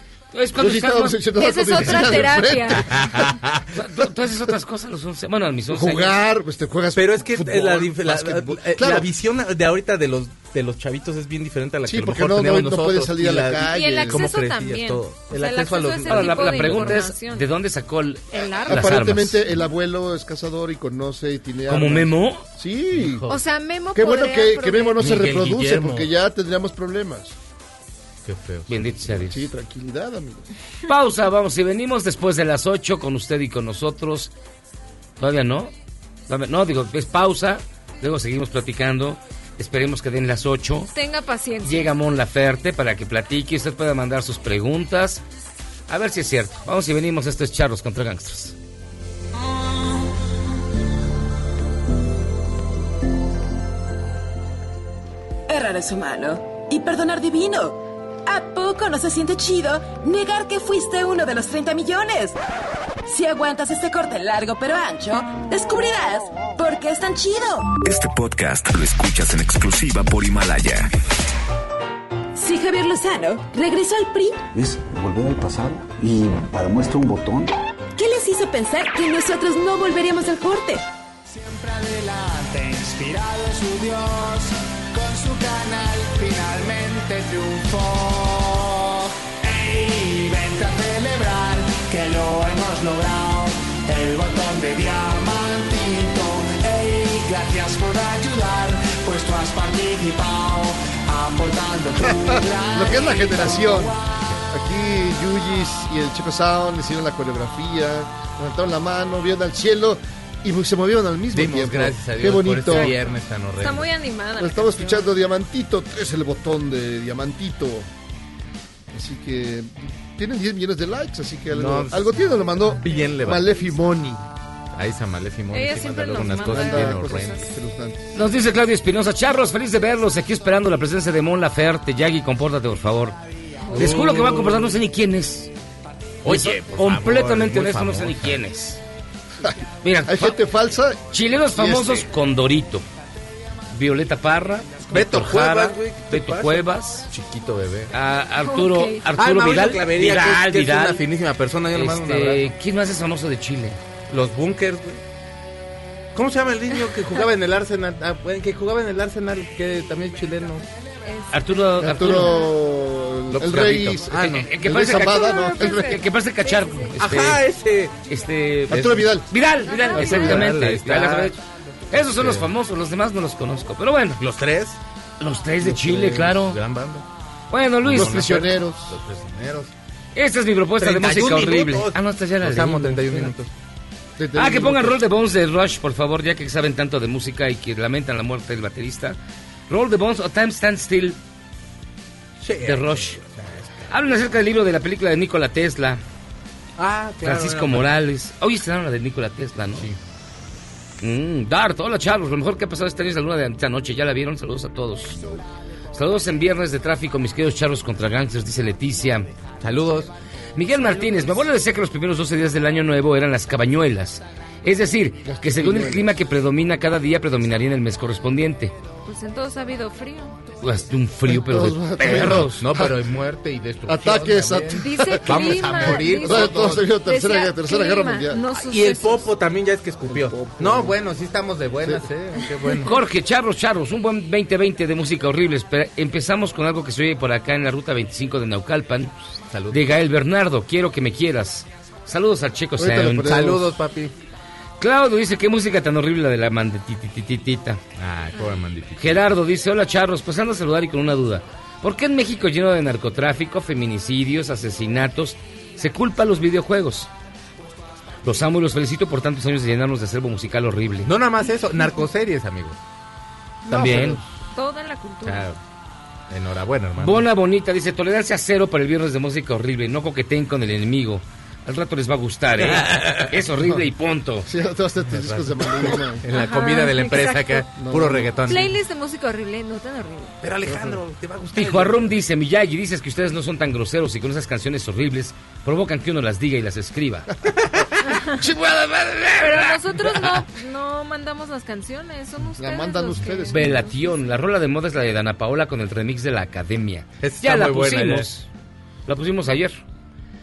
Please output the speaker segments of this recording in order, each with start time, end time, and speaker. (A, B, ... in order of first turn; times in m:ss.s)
0:00.3-0:01.2 A
0:00.6-0:02.9 B
0:01.4-0:02.8 C
0:01.8-0:02.1 A
0:02.9-0:03.6 D
0:03.7-0:06.1 A
0:05.7-0:09.1 B
0:06.9-0:17.0 D
0:11.8-0:14.2 B
0:13.7-0:17.5 C
0:16.1-0:19.4 A
0:18.3-0:19.0 C
0:18.7-0:23.2 B
0:21.7-0:22.4 A
0:23.0-0:23.4 D
0:23.3-0:25.0 C
0:23.9-0:27.3 B
0:25.0-0:26.1 D
0:28.2-0:28.9 D
0:28.7-0:29.4 A
0:29.3-0:30.5 B
0:30.9-0:34.3 A
0:35.2-0:35.7 A
0:36.3-0:40.9 A
0:40.9-0:41.9 C
0:41.6-0:45.2 A
0:45.9-0:48.5 A
0:55.5-1:02.4 E
1:03.0-1:07.7 E
1:07.8-1:10.9 F
1:12.3-1:14.4 E
1:14.5-1:17.5 G
1:18.0-1:20.8 E
1:21.3-1:44.0 H
1:42.0-1:43.9 B
1:44.5-1:52.9 B
1:51.3-1:53.9 D
1:53.6-1:55.1 C
1:54.4-1:57.9 B
1:58.9-2:04.3 B
2:01.5-2:02.0 D
2:02.8-2:03.5 D
2:04.7-2:07.4 D
2:05.5-2:07.4 C
2:06.5-2:08.2 B
2:08.1-2:13.2 A
2:13.7-2:14.8 D
2:13.7-2:15.5 A
2:16.2-2:18.4 D
2:16.3-2:18.8 A
2:19.8-2:20.4 A
2:20.0-2:21.0 B
2:21.1-2:22.8 A
2:21.5-2:22.0 B
2:23.7-2:27.1 A
2:24.9-2:27.9 D
2:27.9-2:31.0 A
2:28.4-2:29.0 C
2:29.2-2:32.5 D
2:31.7-2:33.8 A
2:34.1-2:35.0 D
2:36.1-2:40.6 D
2:41.0-2:41.3 C
2:41.3-2:42.3 A
2:41.8-2:46.0 B
2:42.1-2:42.5 C
2:43.3-2:44.4 D
2:44.1-2:47.4 A
2:44.9-2:46.9 C
2:47.0-2:47.9 D
2:48.1-2:51.4 A
2:48.7-2:49.3 B
2:49.7-2:50.4 C
2:49.9-2:51.4 D
2:51.9-2:54.2 A
2:52.0-2:52.5 D
2:54.2-2:54.8 D
2:55.2-2:56.6 A
2:55.9-2:57.0 D
2:56.0-2:56.3 B
2:57.5-2:58.4 A
2:57.8-2:59.7 D
2:57.9-2:59.0 B
3:00.1-3:03.3 A
3:00.8-3:03.5 D
3:04.2-3:05.0 B
3:04.3-3:09.2 A
3:09.7-3:11.2 A
3:12.4-3:13.9 D
3:12.6-3:13.2 A
3:13.9-3:16.0 A
3:16.8-3:17.9 D
3:17.2-3:19.9 A
3:21.0-3:25.2 A
3:25.9-3:29.3 A
3:29.6-3:30.1 D
3:30.5-3:38.7 A
3:35.2-3:36.1 B
3:39.0-3:40.4 C
3:40.6-3:42.6 A
3:41.2-3:43.0 B
3:42.6-3:46.8 D
3:43.8-3:48.4 B
3:44.8-3:49.3 C
3:48.7-3:52.9 D
3:50.1-3:50.9 B
3:52.8-3:59.2 A
3:59.5-3:59.8 D
3:59.7-4:03.4 A
4:02.8-4:03.7 B
4:03.2-4:04.1 D
4:04.8-4:07.8 A
4:08.0-4:09.2 D
4:09.0-4:17.1 A
4:18.2-4:21.1 A
4:21.0-4:22.8 D
4:23.7-4:24.2 A
4:23.7-4:24.2 B
4:23.8-4:24.2 D
4:24.5-4:25.5 C
4:25.2-4:25.6 D
4:26.3-4:27.2 D
4:27.0-4:34.5 A
4:32.6-4:33.3 D
4:34.4-4:36.2 B
4:35.1-4:38.7 D
4:36.3-4:37.6 C
4:37.8-4:38.5 B
4:38.5-4:40.4 C
4:40.4-4:42.0 D
4:40.6-4:41.0 B
4:41.5-4:47.3 A
4:48.5-4:49.2 B
4:48.6-4:49.6 A
4:49.4-4:53.9 C
4:52.6-4:53.9 B
4:53.5-4:58.5 A
4:57.2-4:58.3 D
4:59.1-4:59.8 A